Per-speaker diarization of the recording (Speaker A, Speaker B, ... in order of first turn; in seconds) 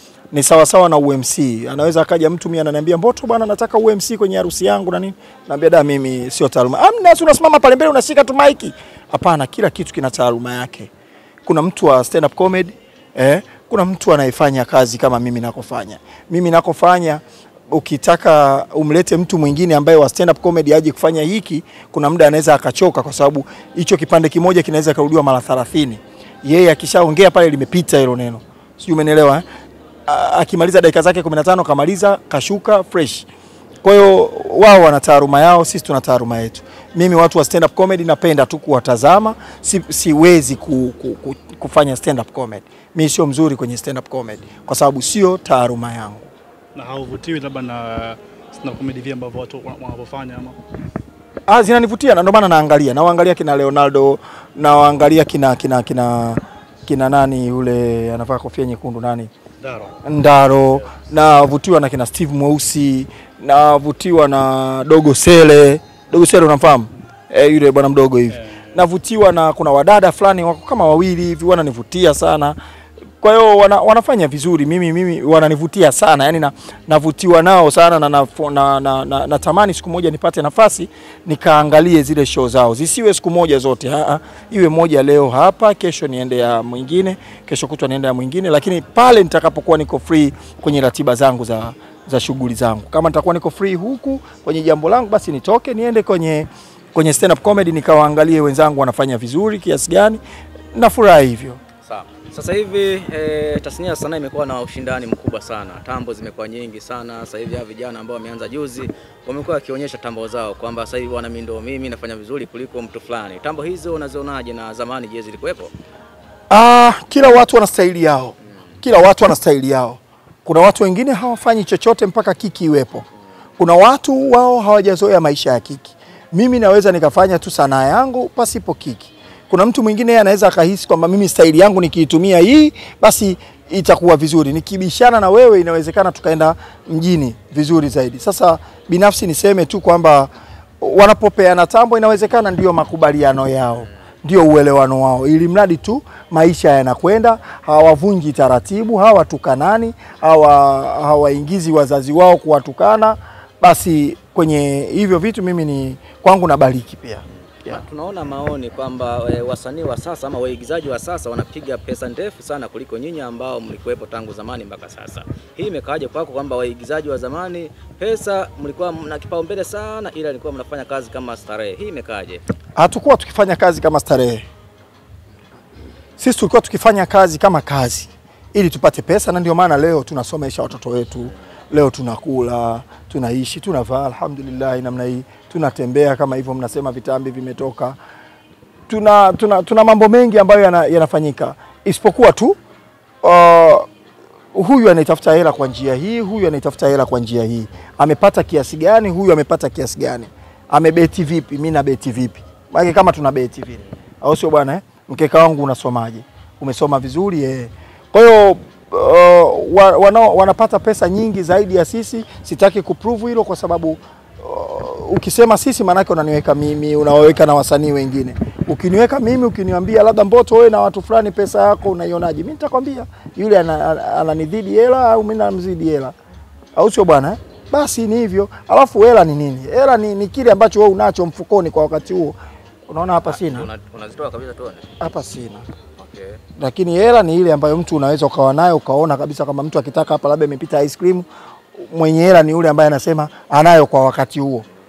Speaker A: 0.3-10.9, 11.5-29.5, 30.1-33.3, 33.8-46.3, 51.5-59.3, 60.0-72.6, 73.2-100.2, 100.7-101.6, 116.5-123.1, 123.6-157.8, 172.8-174.5, 176.2-188.0, 188.9-192.6, 193.2-193.9, 194.5-226.1, 226.8-232.4, 232.9-233.7, 235.0-235.7, 236.6-244.7
Speaker B: 46.7-50.6, 59.6-60.0, 68.3-68.8
Speaker C: 101.8-115.7, 157.7-172.4, 233.2-235.0, 236.0-236.4